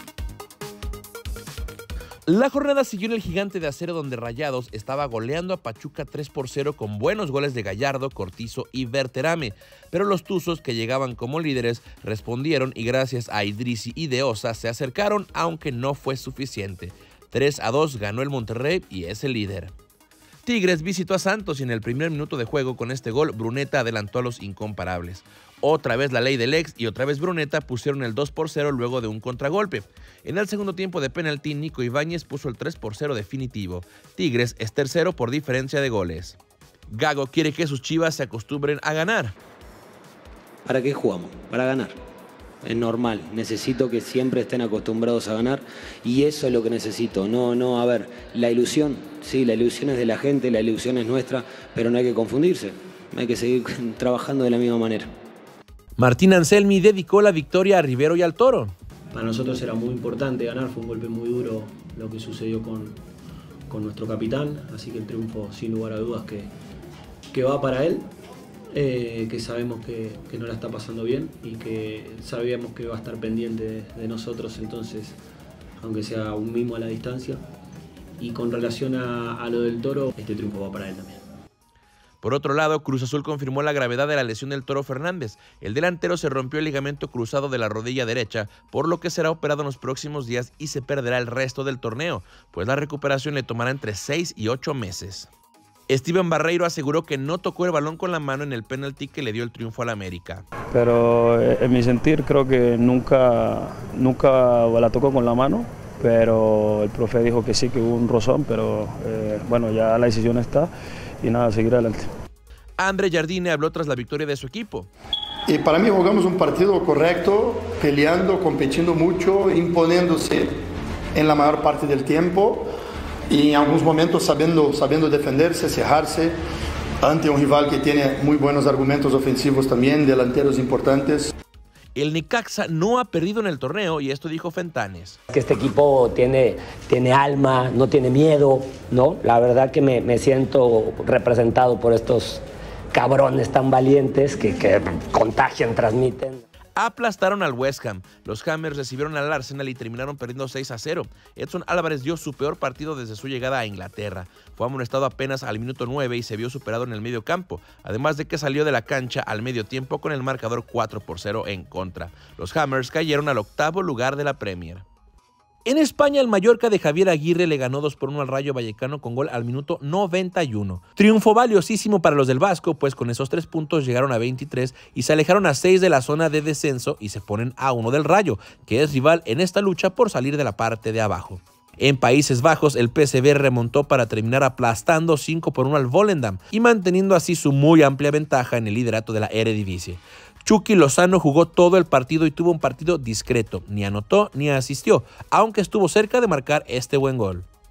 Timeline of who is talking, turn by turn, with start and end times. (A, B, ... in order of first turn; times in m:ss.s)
0:02.3-0:19.7 A
0:20.4-0:36.4 A
0:36.9-0:39.4 A
0:40.7-0:42.0 B
0:42.6-0:55.1 B
0:56.0-0:58.7 A
0:59.1-1:03.0 C
1:03.7-1:06.5 C
1:07.3-1:08.1 C
1:08.7-1:15.2 C
1:15.8-1:17.4 C
1:18.2-1:21.2 C
1:22.2-1:35.3 A
1:35.9-1:40.5 A
1:40.7-1:50.7 D
1:51.2-1:52.1 D
1:52.8-1:54.9 A
1:55.5-2:00.5 E
2:01.2-2:02.7 E
2:03.3-2:06.4 E
2:07.0-2:11.3 E
2:12.0-2:15.2 A
2:15.3-2:26.4 F
2:26.8-2:44.8 A
2:45.7-3:17.5 A